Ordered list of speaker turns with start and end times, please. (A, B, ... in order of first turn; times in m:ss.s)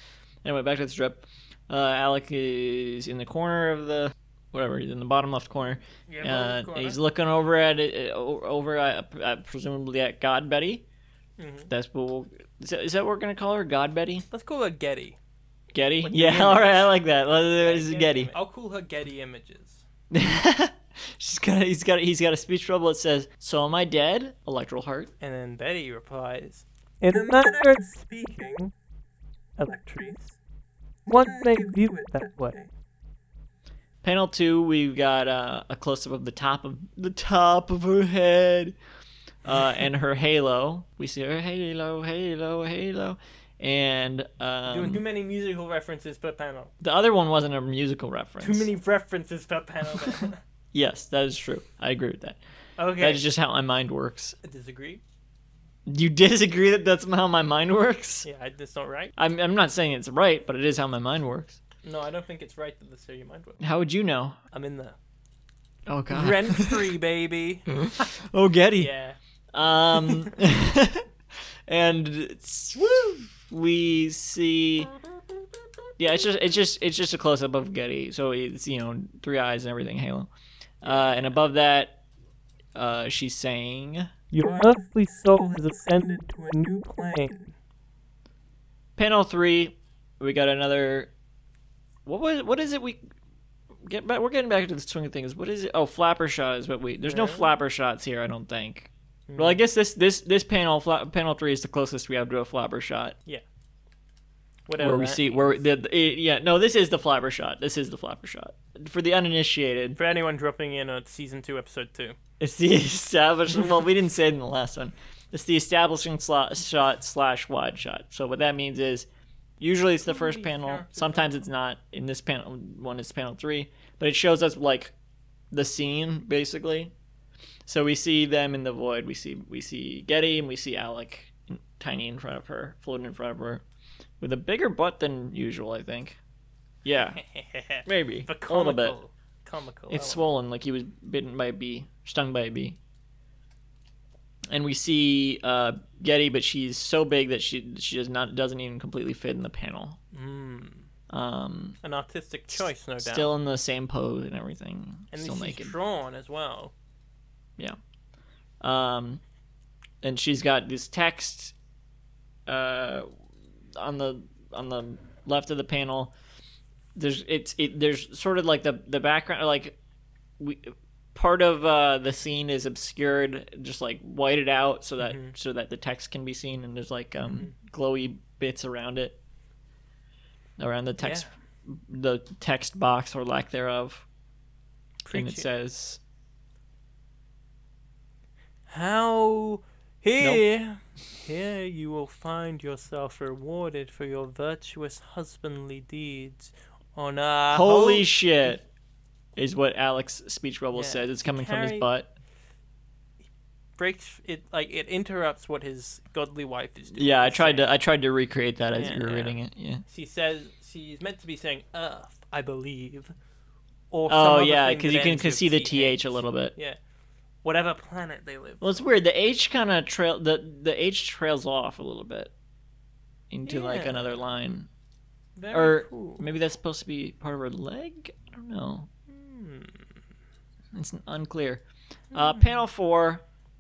0:00.4-0:10.8 A
0:06.1-0:07.0 B
0:11.4-0:11.7 B
0:11.7-0:14.2 A
0:14.3-0:15.2 B
0:15.7-0:18.3 A
0:16.0-0:17.0 B
0:17.6-0:19.8 B
0:20.1-0:25.1 A
0:25.2-0:28.7 B
0:29.6-0:30.4 B
0:31.1-0:32.7 B
0:34.0-0:38.8 A
0:39.4-0:45.0 A
0:44.7-0:46.7 B
0:46.8-0:48.7 A
0:48.4-0:50.4 B
0:50.7-0:52.4 A
0:52.8-0:53.3 B
0:53.0-0:54.4 A
0:54.4-0:55.0 B
0:55.9-0:58.3 A
0:58.2-0:59.1 B
0:59.2-1:01.6 A
1:01.8-1:03.6 B
1:03.6-1:04.4 A
1:04.5-1:05.0 B
1:05.9-1:06.9 A
1:06.1-1:08.1 B
1:07.7-1:08.9 A
1:08.8-1:09.2 B
1:09.5-1:11.1 A
1:10.0-1:10.3 B
1:11.7-1:14.9 A
1:16.0-1:20.3 A
1:20.8-1:22.0 A
1:20.8-1:21.4 B
1:22.8-1:24.1 A
1:24.3-1:27.6 B
1:29.0-1:31.1 A
1:32.1-1:33.0 A
1:33.8-1:43.2 A
1:37.0-1:37.5 B
1:39.3-1:39.6 B
1:44.7-1:45.6 B
1:44.8-1:50.0 A
1:50.0-1:52.2 B
1:52.4-1:59.1 A
1:59.6-2:04.9 A
2:00.0-2:01.4 B
2:05.5-2:06.9 A
2:07.7-2:13.6 A
2:14.2-2:16.2 A
2:16.8-2:17.2 A
2:17.2-2:20.4 B
2:17.9-2:19.0 A
2:19.9-2:22.8 A
2:24.5-2:30.0 A
2:30.1-2:30.9 B
2:31.1-2:31.8 A
2:31.8-2:33.4 B
2:33.0-2:35.7 A
2:35.1-2:36.7 B
2:38.6-2:39.2 A
2:40.0-2:41.6 A
2:42.5-2:43.1 A
2:43.8-2:46.1 A
2:47.0-2:49.8 A
2:50.4-2:59.2 A
2:55.0-2:55.4 B
2:57.2-2:57.5 B
3:00.6-3:04.0 A
3:01.0-3:01.3 B
3:05.0-3:05.5 B
3:05.1-3:06.0 A
3:08.7-3:18.6 B
3:17.5-3:18.6 A
3:19.4-3:22.1 A
3:20.7-3:21.9 B
3:23.8-3:27.7 B
3:26.9-3:29.8 A
3:28.8-3:33.1 B
3:33.9-3:36.8 B
3:34.1-3:36.6 A
3:37.4-3:38.8 B
3:38.6-3:42.3 A
3:43.3-3:44.7 A
3:43.5-3:44.2 B
3:45.4-3:46.3 B
3:45.5-3:48.9 A
3:49.1-3:49.8 B
3:50.7-3:53.2 A
3:52.2-3:52.6 B